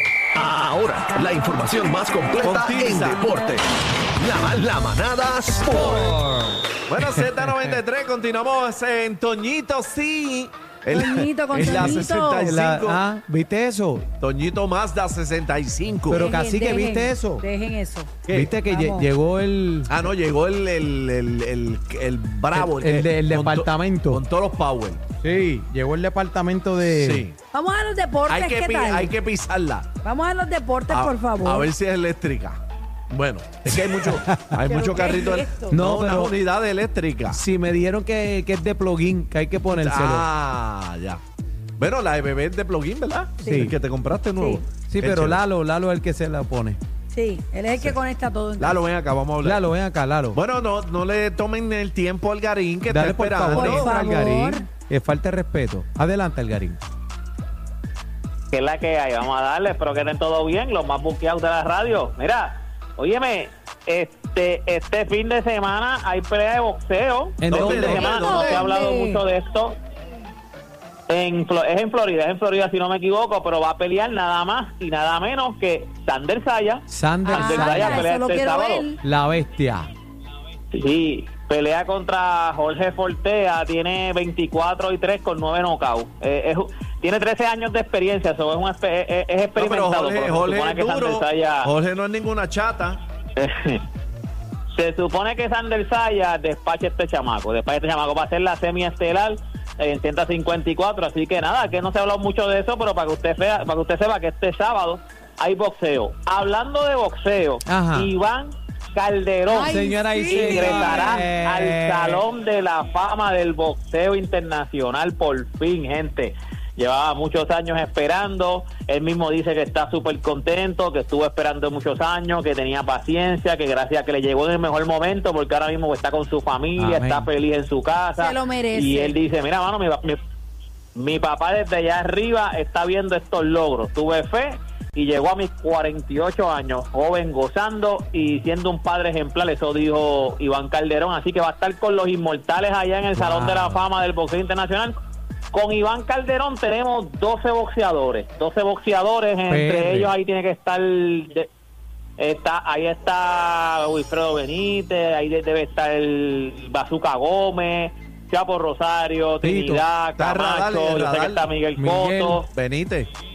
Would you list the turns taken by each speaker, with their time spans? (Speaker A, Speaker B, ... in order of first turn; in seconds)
Speaker A: 0.3-6.3
Speaker B: 2.4-3.3, 6.9-13.0, 14.2-16.3, 18.3-18.6, 19.9-25.0, 26.9-27.4, 28.3-29.9, 30.9-32.6, 33.1-37.4, 39.7-41.2, 41.8-45.4, 48.6-49.6, 50.3-53.9, 67.5-68.7, 89.6-93.0, 160.2-161.5, 162.5-163.1
Speaker C: 7.5-7.7, 11.6-14.1, 16.1-17.4, 18.3-19.9, 22.5-24.2, 25.2-27.3, 34.0-34.6, 35.7-36.3, 37.3-40.3, 43.5-43.7, 44.8-46.8, 49.4-50.4, 52.9-56.8, 67.4-68.1, 76.9-78.1, 79.0-79.9, 107.7-108.1, 109.6-112.2, 126.8-127.3, 143.2-143.8, 149.5-150.1, 159.4-159.8, 161.8-162.4
Speaker D: 10.9-12.5, 16.1-19.1, 27.5-29.1, 30.0-31.7, 34.7-35.7, 43.4-43.7, 44.4-44.7, 47.1-48.8, 53.5-54.7, 68.0-69.2, 77.3-79.0, 109.5-111.2, 128.2-129.2
Speaker E: 58.5-69.8, 71.1-78.9, 80.7-91.7, 93.4-93.8, 94.7-109.8, 110.3-130.2, 130.9-144.9, 145.5-151.5, 152.2-162.5